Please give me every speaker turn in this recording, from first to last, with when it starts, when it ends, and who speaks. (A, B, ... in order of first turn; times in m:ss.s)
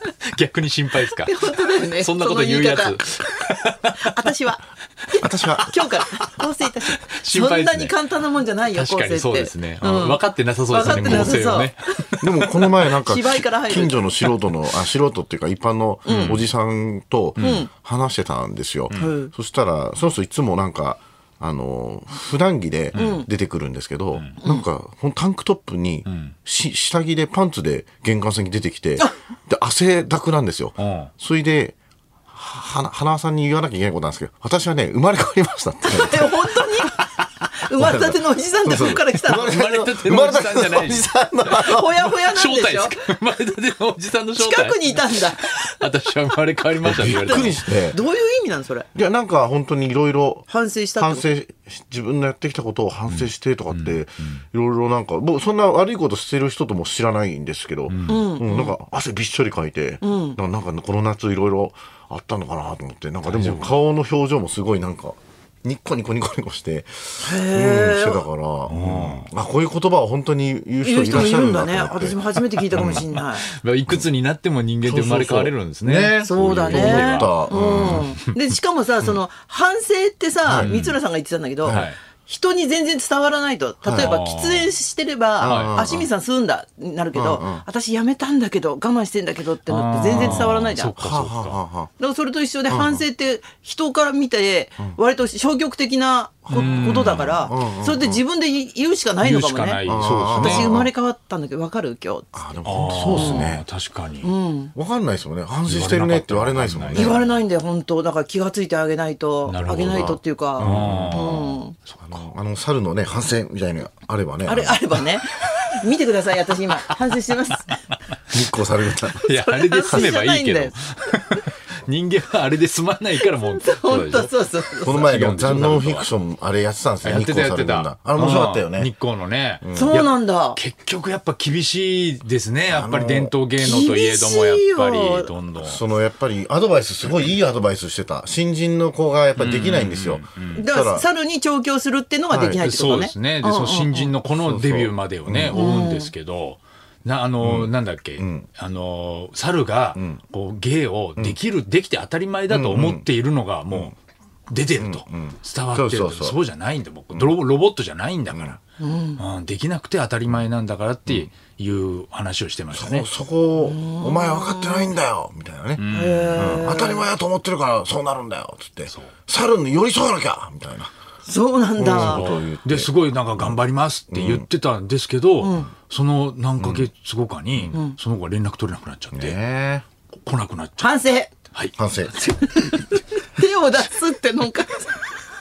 0:00.3-0:04.1 A
0:01.2-0:03.0 B
0:04.0-0:11.7 B
0:05.2-0:05.7 C
0:07.1-0:08.0 A
0:08.7-0:12.9 A
0:10.9-0:11.4 C
0:12.2-0:31.8 C
0:12.9-0:14.1 B
0:16.1-0:16.4 B
0:16.1-0:16.5 A
0:17.4-0:17.6 A
0:17.4-0:17.7 B
0:19.0-0:19.3 B
0:22.9-0:23.2 A
0:23.0-0:23.3 B
0:26.0-0:26.4 A
0:30.8-0:31.1 A
0:32.3-0:36.4 C
0:35.9-0:37.0 B
0:37.6-0:39.6 B
0:37.8-0:42.0 C
0:38.8-0:41.1 A
0:41.5-0:43.0 B
0:42.3-0:47.6 A
0:44.4-0:45.9 B
0:46.8-0:48.0 C
0:47.1-0:48.9 B
0:49.0-1:12.2 C
0:50.5-0:51.2 B
0:53.1-0:54.4 A
0:57.9-0:58.2 A
0:58.1-0:58.8 B
1:00.0-1:00.4 B
1:03.2-1:03.7 A
1:07.2-1:08.2 B
1:08.7-1:09.3 A
1:10.8-1:13.5 B
1:12.4-1:18.2 A
1:12.7-1:13.1 C
1:14.8-1:18.1 C
1:16.2-1:30.9 B
1:20.4-1:20.7 C
1:20.6-1:21.0 A
1:21.6-1:21.9 C
1:21.7-1:22.0 A
1:23.8-1:24.1 C
1:24.0-1:24.7 A
1:25.4-1:26.1 C
1:25.4-1:25.8 A
1:27.2-1:27.6 C
1:29.7-1:31.6 A
1:30.1-1:31.9 C
1:32.0-1:39.8 B
1:32.7-1:33.0 C
1:36.5-1:38.2 C
1:36.5-1:37.5 A
1:39.2-1:40.7 A
1:39.9-1:40.9 C
1:40.4-1:43.5 B
1:42.3-1:43.6 C
1:42.6-1:44.3 A
1:44.2-1:44.7 B
1:44.8-1:47.2 C
1:45.7-1:47.3 A
1:46.9-1:51.8 B
1:49.5-1:52.3 A
1:49.8-1:51.3 C
1:52.1-1:54.8 C
1:54.4-1:57.8 B
1:55.4-1:55.8 A
1:58.3-1:59.3 C
1:59.2-2:06.1 A
1:59.3-2:00.8 B
1:59.9-2:00.2 C
2:03.4-2:05.3 B
2:04.8-2:08.9 C
2:07.0-2:15.8 A
2:09.6-2:10.0 C
2:09.7-2:10.6 B
2:12.7-2:13.3 C
2:13.6-2:15.3 B
2:15.6-2:21.0 C
2:17.0-2:17.4 A
2:19.4-2:20.7 A
2:20.6-2:24.1 B
2:22.3-2:22.6 C
2:22.6-2:33.9 A
2:24.3-2:25.6 C
2:25.5-2:26.1 B
2:27.4-2:28.5 C
2:30.0-2:30.2 C
2:32.5-2:33.1 C
2:34.5-2:38.6 A
2:34.8-2:36.4 C
2:38.3-2:38.6 C
2:38.8-2:39.2 B
2:39.2-2:43.1 A
2:42.7-2:45.8 C
2:43.6-2:44.9 B
2:45.8-2:46.6 A
2:45.9-2:47.0 B
2:46.4-2:50.9 C
2:51.2-2:52.2 B
2:51.8-2:53.6 C
2:51.9-2:59.4 A
2:54.1-2:54.5 C
2:55.4-2:55.7 B
2:56.6-2:56.9 C
2:59.1-2:59.9 C
3:00.2-3:00.9 A
3:00.8-3:01.3 B
3:01.8-3:02.1 C
3:02.1-3:05.1 B